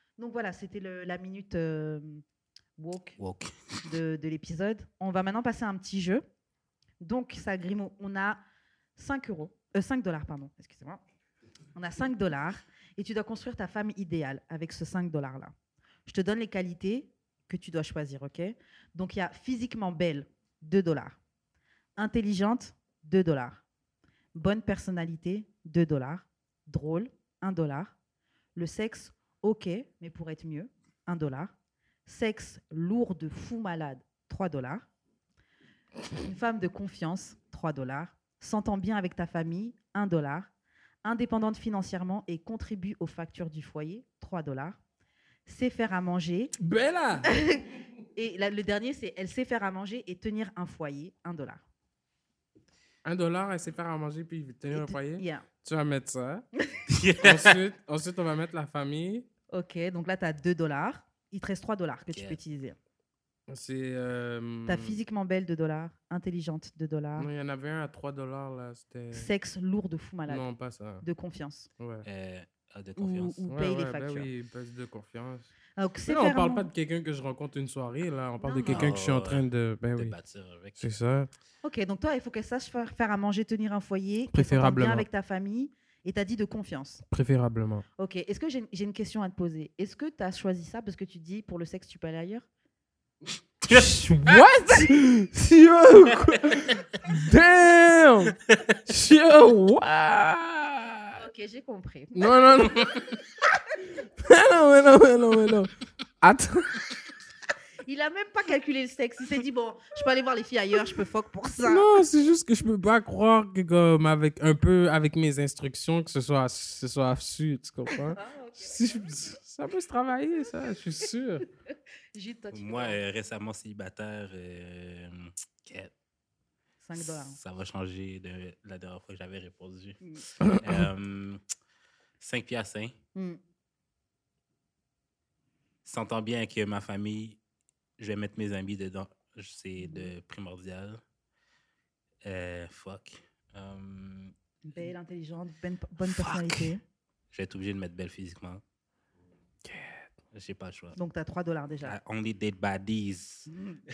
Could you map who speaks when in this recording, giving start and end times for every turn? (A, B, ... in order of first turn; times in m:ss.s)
0:00.2-0:02.2 A
0:02.8-0:03.2 A
0:03.2-0:03.8 B
0:03.8-0:06.2 A
0:07.0-0:08.4 A
0:09.0-0:11.0 A
0:11.8-0:15.5 A
0:16.1-0:21.2 A
0:22.0-0:23.6 A
0:24.4-0:28.0 A
0:28.6-0:31.5 A
0:32.1-0:34.9 A
0:36.2-0:40.5 A
0:41.0-0:44.8 A
0:45.5-0:46.6 A
0:46.6-0:47.3 C
0:47.2-0:51.6 A
0:53.0-0:56.4 C
0:54.7-0:55.5 A
0:56.9-0:57.6 B
0:57.2-0:59.3 C
0:59.5-1:02.8 A
1:02.1-1:02.4 B
1:03.5-1:05.0 C
1:04.7-1:07.3 A
1:07.2-1:09.3 C
1:09.1-1:10.5 A
1:10.3-1:11.0 C
1:11.0-1:11.7 A
1:11.8-1:12.0 C
1:12.0-1:13.4 B
1:13.0-1:14.3 A
1:13.5-1:15.5 C
1:15.8-1:16.7 A
1:16.1-1:20.2 C
1:18.4-1:19.0 A
1:18.7-1:19.4 B
1:20.0-1:20.9 B
1:20.8-1:21.3 C
1:21.6-1:27.0 A
1:24.3-1:25.1 C
1:27.1-1:27.8 C
1:28.0-1:32.5 A
1:33.6-1:41.2 C
1:33.7-1:34.5 B
1:41.2-1:43.0 A
1:42.2-1:42.9 C
1:44.0-1:46.8 C
1:47.8-1:51.9 A
1:51.6-2:01.5 C
1:58.0-1:59.4 A
2:02.1-2:03.0 A
2:02.5-2:05.9 B
2:06.8-2:07.4 A
2:07.0-2:11.4 B
2:10.4-2:10.9 C
2:12.2-2:12.9 B
2:13.2-2:13.4 A
2:15.8-2:17.4 B
2:18.0-2:21.0 B
2:19.8-2:20.1 A
2:22.2-2:24.3 B
2:24.7-2:26.8 A
2:26.0-2:26.7 B
2:27.3-2:28.6 B
2:29.6-2:30.1 C
2:30.3-2:31.0 B
2:31.0-2:32.0 A
2:31.8-2:33.5 B
2:33.5-2:33.8 A